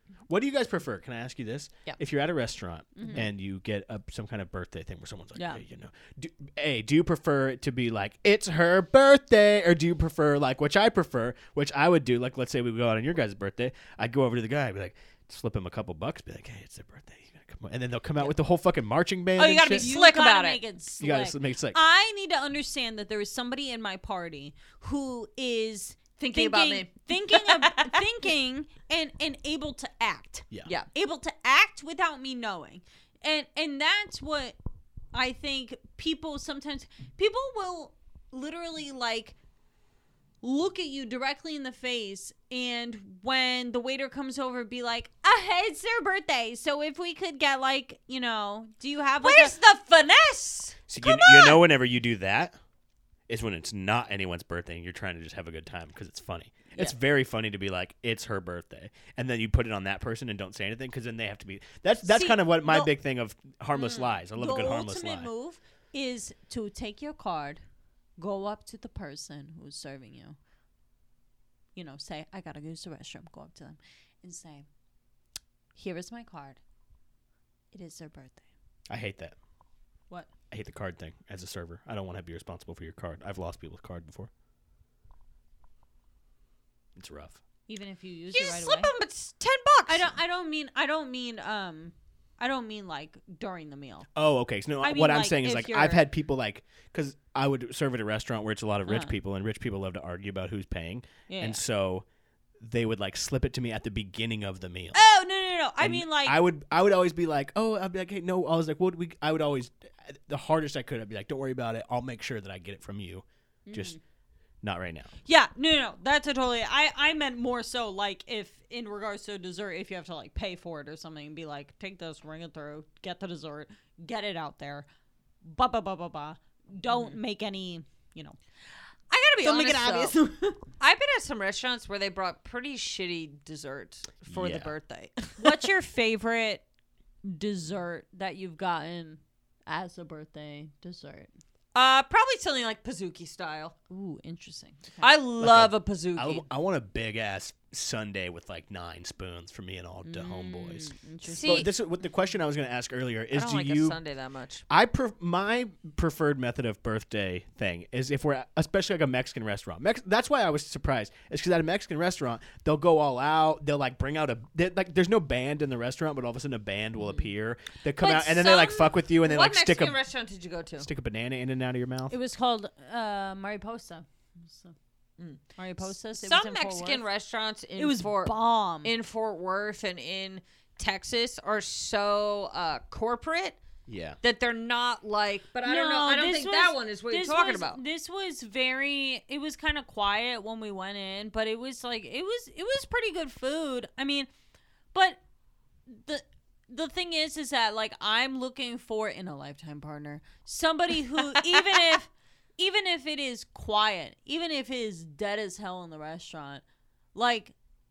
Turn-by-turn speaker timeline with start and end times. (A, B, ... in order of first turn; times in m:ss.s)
0:00.3-0:19.9 A
0:03.0-0:03.3 B
0:05.4-0:05.6 B
0:19.4-0:20.6 C
0:19.7-0:34.6 B
0:21.0-0:21.8 A
0:26.3-0:28.0 C
0:35.1-0:39.4 B
0:40.4-0:49.6 B
0:49.2-0:51.6 C
0:50.9-0:52.6 A
0:53.3-1:05.3 A
1:02.0-1:02.9 B
1:03.8-1:04.1 C
1:04.4-1:07.6 B
1:08.2-1:10.4 B
1:11.8-1:14.7 B
1:15.8-1:16.6 B
1:17.7-1:18.4 B
1:18.9-1:19.4 A
1:20.5-1:24.3 A
1:27.0-1:27.4 A
1:27.7-1:28.9 B
1:28.3-1:30.1 C
1:29.9-1:34.1 B
1:34.2-1:42.0 A
1:34.8-1:36.0 B
1:38.9-1:39.1 B
1:41.3-1:41.6 B
1:42.6-1:45.0 A
1:45.0-1:46.4 B
1:45.8-1:54.0 A
1:53.7-1:54.0 B
1:54.6-1:55.1 A
1:55.3-2:04.9 B
2:05.4-2:08.4 B
2:06.9-2:07.2 C
2:09.1-2:10.6 B
2:09.4-2:10.2 C
2:10.8-2:15.6 C
2:14.3-2:14.7 A
2:15.4-2:16.6 B
2:17.2-2:21.3 B
2:21.7-2:23.8 C
2:23.9-2:25.1 B
2:25.0-2:26.4 C
2:25.4-2:34.0 A
2:30.0-2:31.7 B
2:31.3-2:31.7 C
2:33.3-2:34.6 C
2:34.7-2:50.0 A
2:48.0-2:50.9 C
2:50.8-2:52.2 A
2:52.1-2:54.8 B
2:55.6-2:57.0 B
2:56.1-3:03.6 C
2:57.8-2:58.9 B
3:03.9-3:04.2 A
3:04.2-3:07.8 C
3:05.6-3:14.3 B
3:14.9-3:15.2 B
3:15.9-3:26.6 B
3:27.2-3:27.5 B